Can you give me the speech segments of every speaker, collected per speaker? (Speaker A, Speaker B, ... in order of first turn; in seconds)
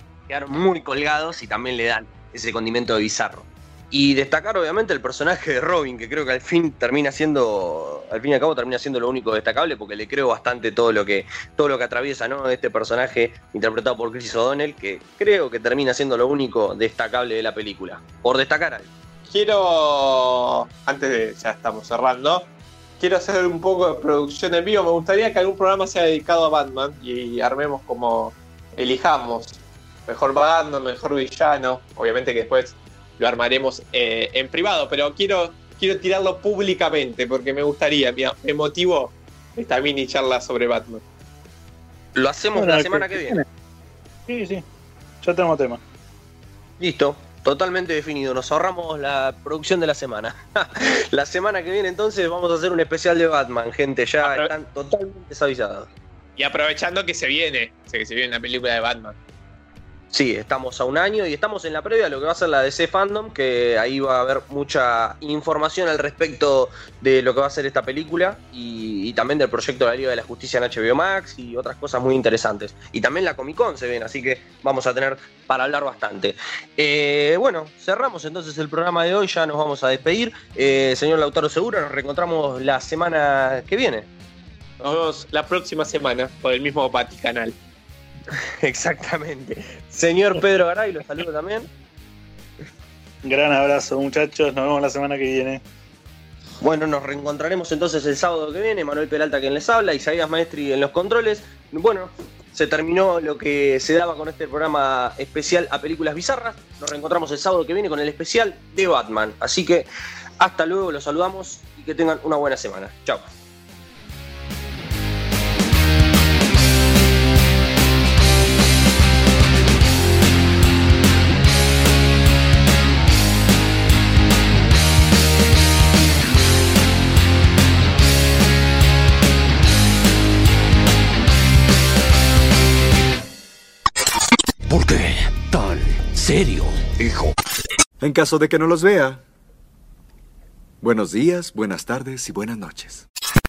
Speaker A: 0.3-18.9, 42.2-43.4, 46.8-55.9, 60.1-84.1, 88.3-91.7, 96.6-109.9, 110.4-113.3
Speaker B: 19.3-22.5, 23.0-41.0, 54.2-54.5, 56.4-59.2, 84.8-87.5
Speaker C: 42.5-43.5, 44.3-44.6, 45.2-45.8, 93.2-95.6
Speaker D: 134.7-137.3
Speaker E: 138.0-139.2, 140.8-143.0